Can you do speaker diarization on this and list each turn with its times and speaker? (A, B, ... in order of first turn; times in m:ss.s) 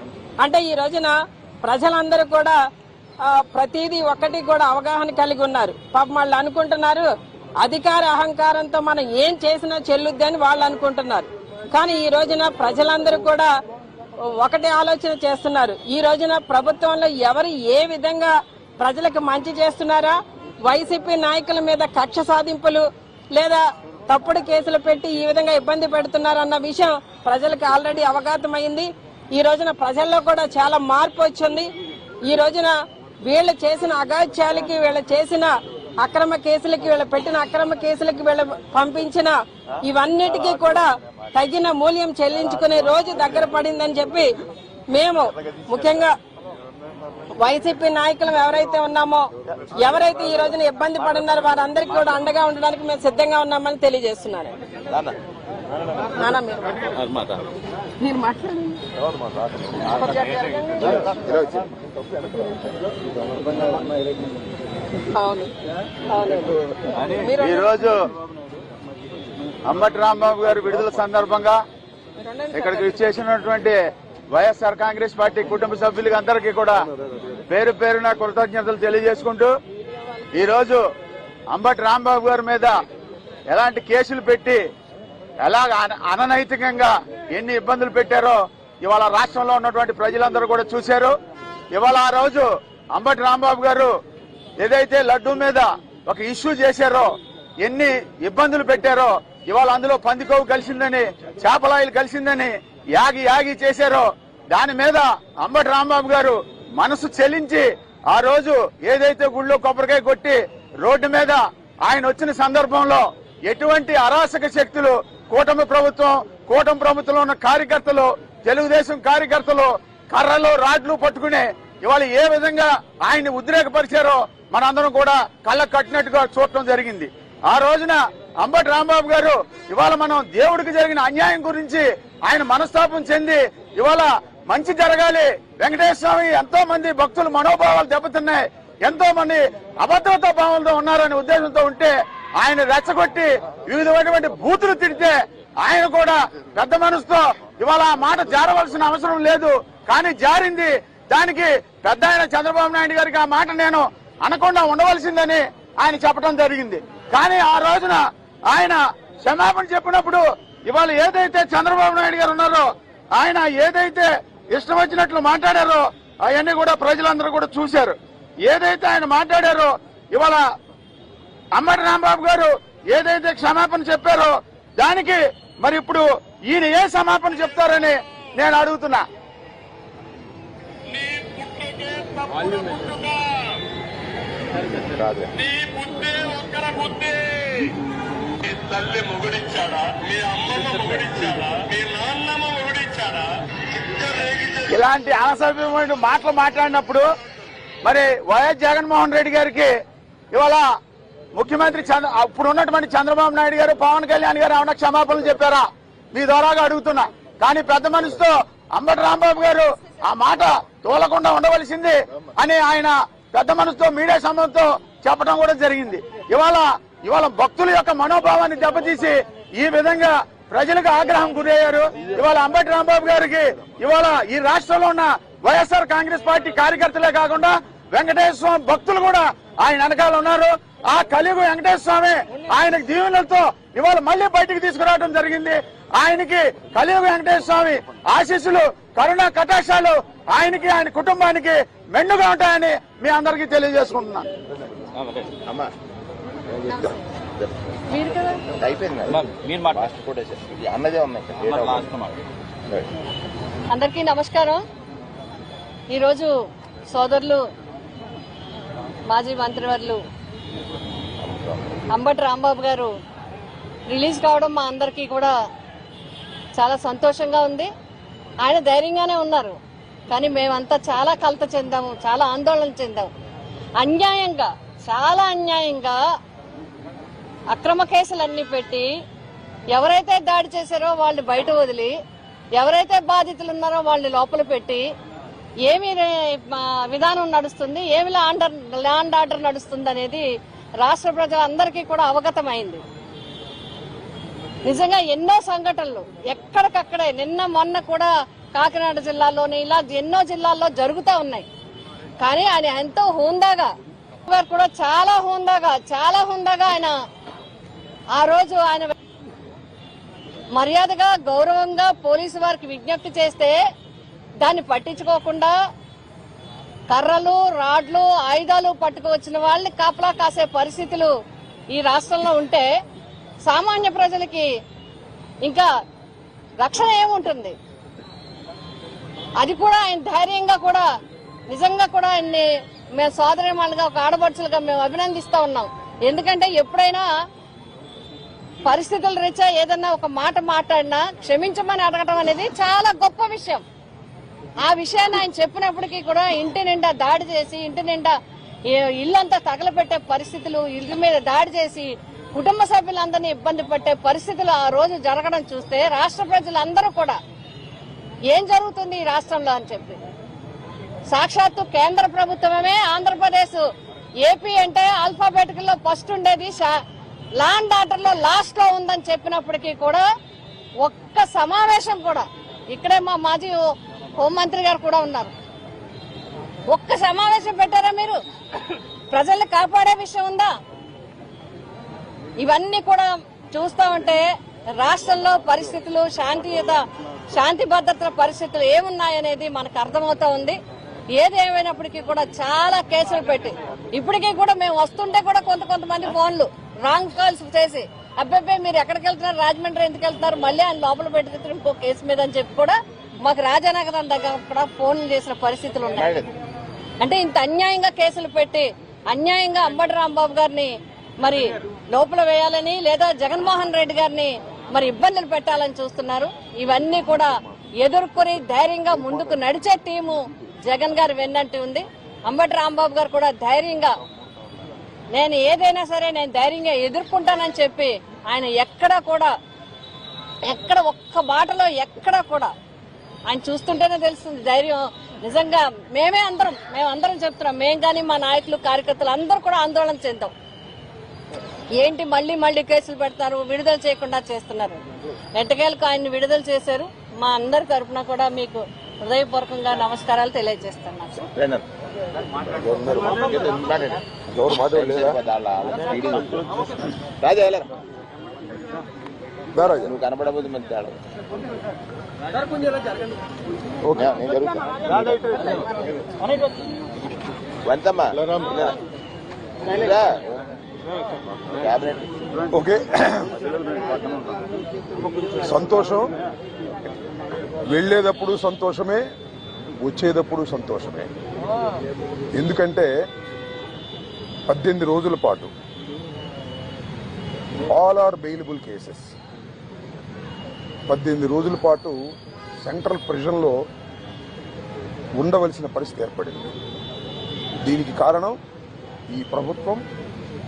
0:00.4-0:02.6 A
0:03.2-0:07.1 A
0:07.6-0:13.5 A
0:14.4-0:31.7 A
0:32.3-0:32.8 A
0:33.3-0:44.3 A
0:44.9-0:46.1 A
0:47.4-0:54.5 A
0:54.9-0:55.1 B
0:56.2-0:56.8 A
0:58.0-0:58.8 A
0:59.9-1:00.9 A
1:00.9-1:01.6 B
1:05.1-1:05.5 A
1:06.1-1:06.6 A
1:07.1-1:07.7 A
1:07.4-1:08.0 C
1:09.7-1:11.6 C
1:12.2-1:13.1 A
1:12.5-1:13.8 C
1:14.3-1:16.8 C
1:17.5-1:19.5 C
1:20.3-1:20.8 C
1:21.5-1:22.7 C
1:23.5-1:24.6 C
1:25.4-1:31.1 C
1:31.7-1:33.9 C
1:34.6-2:38.0 C
2:38.5-2:47.9 C
2:48.5-2:50.4 C
2:51.6-2:59.0 C
3:00.9-3:03.2 D
3:04.8-3:05.3 E
3:05.3-3:07.7 D
3:08.4-3:14.8 D
3:14.7-3:17.0 C
3:17.8-3:19.7 C
3:20.3-3:20.6 C
3:21.4-4:04.3 C
4:05.4-4:05.7 B
4:06.6-4:07.5 B
4:07.9-4:08.4 F
4:08.6-4:12.0 B
4:13.7-4:14.6 F
4:15.9-4:16.3 F
4:16.9-4:17.4 F
4:19.1-4:20.0 F
4:21.2-4:21.7 B
4:21.9-4:22.9 F
4:23.9-4:25.3 F
4:26.6-4:27.7 F
4:28.4-4:29.6 F
4:30.1-4:33.1 F
4:33.8-4:36.0 F
4:37.5-4:38.9 F
4:39.7-4:41.9 F
4:42.6-4:44.8 F
4:45.7-4:50.3 F
4:50.8-4:52.8 F
4:54.6-5:01.4 F
5:02.2-5:03.7 F
5:04.3-5:07.0 F
5:08.1-5:08.9 F
5:10.6-5:13.6 F
5:14.4-5:15.5 F
5:16.9-5:21.1 F
5:21.7-5:22.7 F
5:23.5-5:24.5 F
5:25.4-5:25.7 F
5:26.6-5:27.6 F
5:29.4-5:30.9 F
5:31.5-5:32.5 F
5:33.0-5:37.1 F
5:38.6-5:43.6 F
5:44.6-5:48.1 F
5:48.7-5:57.2 F
5:58.3-6:00.0 F
6:01.1-6:03.7 F
6:04.2-6:06.7 F
6:07.4-6:10.0 F
6:10.8-6:13.6 F
6:14.2-6:15.3 F
6:16.7-6:18.2 F
6:19.1-6:20.5 F
6:22.4-6:24.2 F
6:24.8-6:26.8 F
6:27.3-6:30.6 F
6:31.2-6:46.2 F
6:46.0-6:46.2 B
6:47.0-7:03.9 F
7:05.1-7:09.3 F
7:10.4-7:12.5 F
7:13.3-7:20.3 F
7:21.8-7:24.8 F
7:25.4-7:31.2 F
7:31.3-7:31.6 B
7:32.4-7:34.0 B
7:32.8-7:33.2 E
7:34.3-7:35.2 E
7:34.5-7:36.5 B
7:37.2-7:37.7 B
7:39.6-7:40.0 E
7:39.8-7:41.0 B
7:43.8-7:44.2 E
7:43.9-7:44.9 B
7:47.6-7:48.7 B
7:49.7-7:50.4 B
7:51.5-7:52.1 B
7:52.5-7:53.3 E
7:55.3-7:56.1 E
7:57.7-7:59.0 E
7:59.8-8:01.1 E
8:02.3-8:02.9 E
8:04.5-8:05.5 E
8:07.6-8:09.1 E
8:10.9-8:12.0 E
8:12.6-8:13.6 E
8:15.2-8:16.5 E
8:17.6-8:18.4 E
8:19.1-8:19.8 E